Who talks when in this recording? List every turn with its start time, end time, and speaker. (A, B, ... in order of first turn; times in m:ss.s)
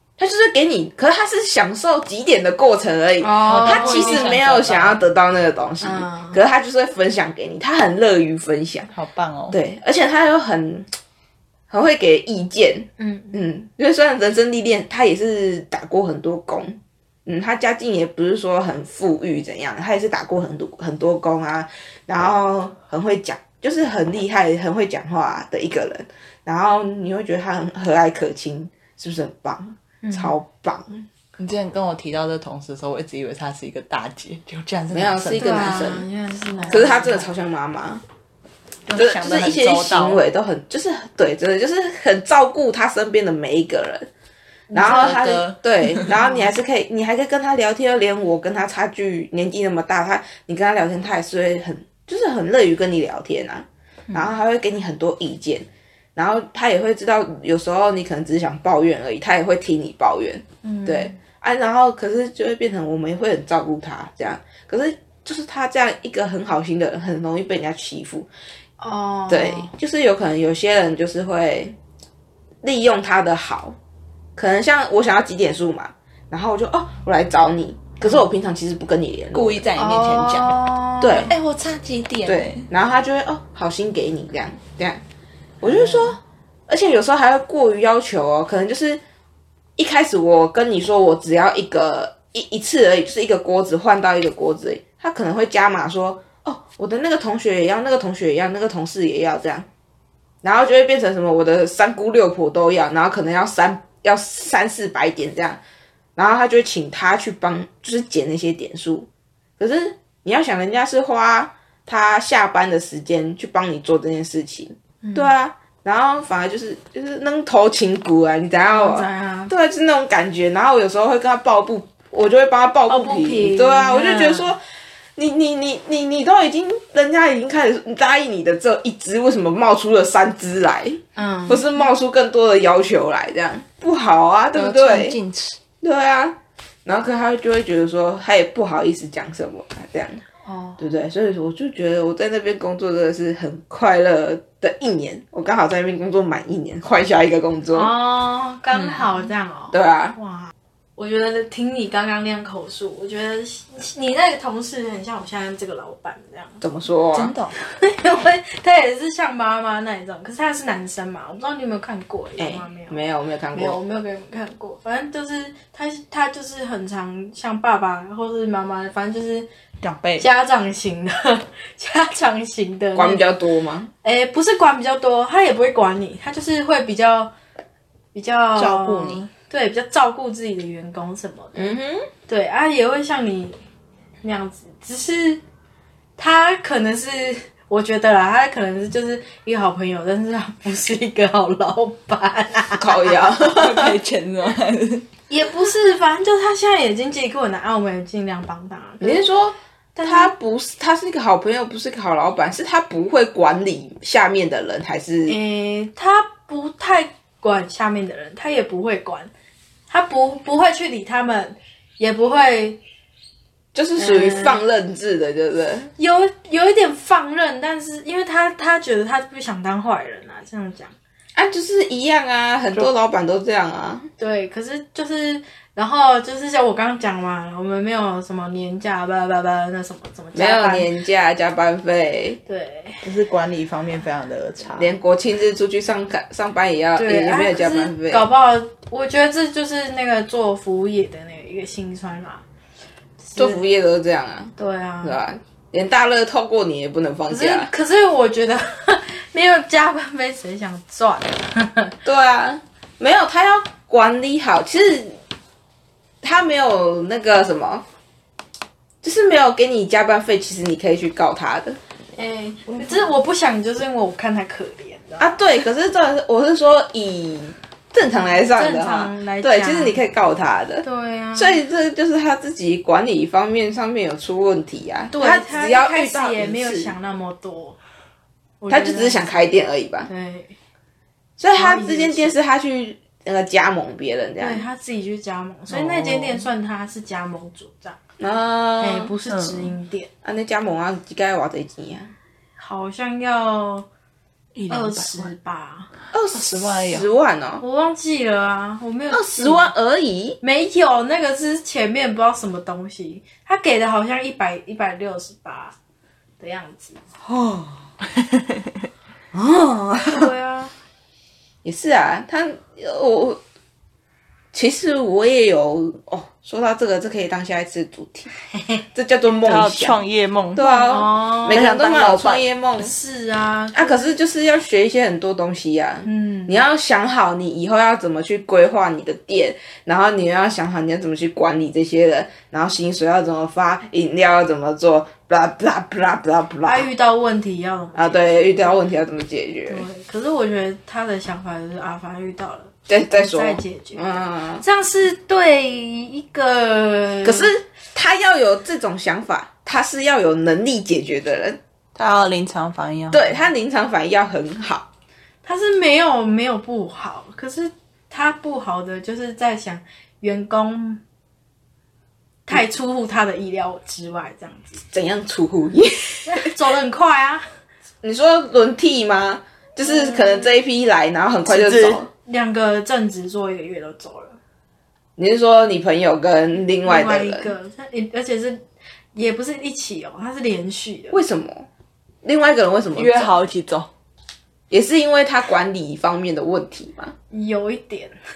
0:00.2-0:08.9 A
0:03.2-0:04.4 B
0:03.4-0:05.0 C
0:05.8-0:06.4 B
0:08.9-0:09.6 C
0:09.5-0:10.9 A
0:11.7-0:31.1 A
0:13.0-0:13.4 B
0:30.0-0:30.3 B
0:31.4-0:35.8 C
0:34.9-0:36.0 A
0:35.4-0:37.3 B
0:36.6-0:38.0 A
0:38.9-0:40.2 C
0:38.9-0:44.1 A
0:44.7-0:46.1 C
0:44.7-1:08.3 A
1:00.6-1:01.2 B
1:08.8-1:09.7 B
1:09.3-1:11.8 A
1:12.6-1:13.8 A
1:14.4-1:19.7 A
1:19.3-1:22.7 C
1:19.8-1:21.3 B
1:21.0-1:21.3 A
1:22.2-1:25.0 A
1:25.6-1:29.0 A
1:25.6-1:26.2 C
1:29.8-1:39.7 A
1:40.4-1:45.6 A
1:46.2-2:04.6 A
1:55.0-1:55.3 B
1:58.7-1:59.5 B
2:02.9-2:04.5 B
2:05.2-2:15.2 A
2:11.2-2:11.6 B
2:14.5-2:15.6 C
2:15.8-2:20.2 A
2:20.4-2:20.8 B
2:20.8-2:27.9 A
2:27.7-2:36.6 B
2:28.7-2:29.2 C
2:29.7-2:30.2 A
2:36.6-2:37.4 A
2:37.1-2:37.5 C
2:37.6-2:43.0 B
2:42.4-2:43.8 A
2:43.5-2:49.5 B
2:49.8-2:50.2 C
2:50.2-2:53.2 B
2:53.0-2:53.9 A
2:54.0-2:57.3 B
2:58.1-3:01.7 B
2:58.6-2:59.3 C
3:01.5-3:02.1 A
3:02.3-3:03.6 B
3:04.2-3:05.4 B
3:06.2-3:13.2 B
3:12.8-3:14.0 A
3:13.4-3:15.0 C
3:15.3-3:19.3 B
3:19.0-3:25.4 A
3:20.0-3:20.3 B
3:25.3-3:29.3 B
3:29.9-3:32.8 B
3:33.7-3:35.9 A
3:34.0-3:34.6 B
3:36.0-3:40.9 B
3:41.4-3:44.1 A
3:44.2-3:50.9 B
3:50.3-3:52.4 A
3:52.5-3:53.0 B
3:53.0-3:54.9 C
3:54.8-3:58.3 A
3:57.0-4:02.4 B
4:03.2-4:03.6 B
4:03.4-4:07.7 A
4:04.6-4:05.2 B
4:07.3-4:11.9 B
4:12.0-4:15.2 A
4:16.2-4:17.8 A
4:19.0-4:21.8 A
4:22.2-4:25.4 B
4:25.2-4:36.9 A
4:28.5-4:30.0 B
4:30.8-4:31.6 B
4:35.1-4:37.8 B
4:38.6-4:40.5 B
4:38.7-4:40.1 A
4:41.4-4:44.6 A
4:41.5-4:42.3 B
4:44.4-4:48.0 B
4:45.7-4:46.5 C
4:48.2-4:49.1 A
4:48.8-4:50.1 B
4:49.3-4:49.7 C
4:50.2-4:52.1 A
4:52.6-4:53.8 B
4:54.5-4:55.3 C
4:54.7-4:55.9 B
4:56.1-4:57.6 A
4:56.3-4:57.1 C
4:57.6-4:59.7 B
4:59.1-5:00.4 A
5:00.4-5:05.7 B
5:06.4-5:07.0 B
5:07.2-5:07.8 A
5:09.3-5:10.3 A
5:10.0-5:10.7 B
5:11.6-5:13.4 A
5:14.5-5:18.3 A
5:18.9-5:20.0 A
5:19.4-5:20.6 C
5:20.5-5:22.9 A
5:20.6-5:21.6 B
5:21.5-5:22.4 C
5:22.8-5:24.1 B
5:23.7-5:36.9 A
5:26.0-5:26.6 B
5:36.6-5:38.8 B
5:37.9-5:39.8 A
5:39.7-5:47.5 B
5:42.9-5:44.6 A
5:47.2-5:51.6 A
5:51.9-5:53.4 C
5:53.1-5:54.8 A
5:55.4-6:01.0 B
6:02.4-6:04.8 B
6:04.9-6:06.5 A
6:06.2-6:07.4 B
6:08.0-6:12.1 A
6:09.8-6:10.5 B
6:11.4-6:12.0 C
6:12.2-6:14.4 B
6:15.2-6:17.5 A
6:16.8-6:18.6 B
6:19.1-6:21.2 B
6:21.1-6:21.7 A
6:22.2-6:23.3 A
6:22.9-6:23.9 C
6:24.7-6:27.1 A
6:27.3-6:28.1 B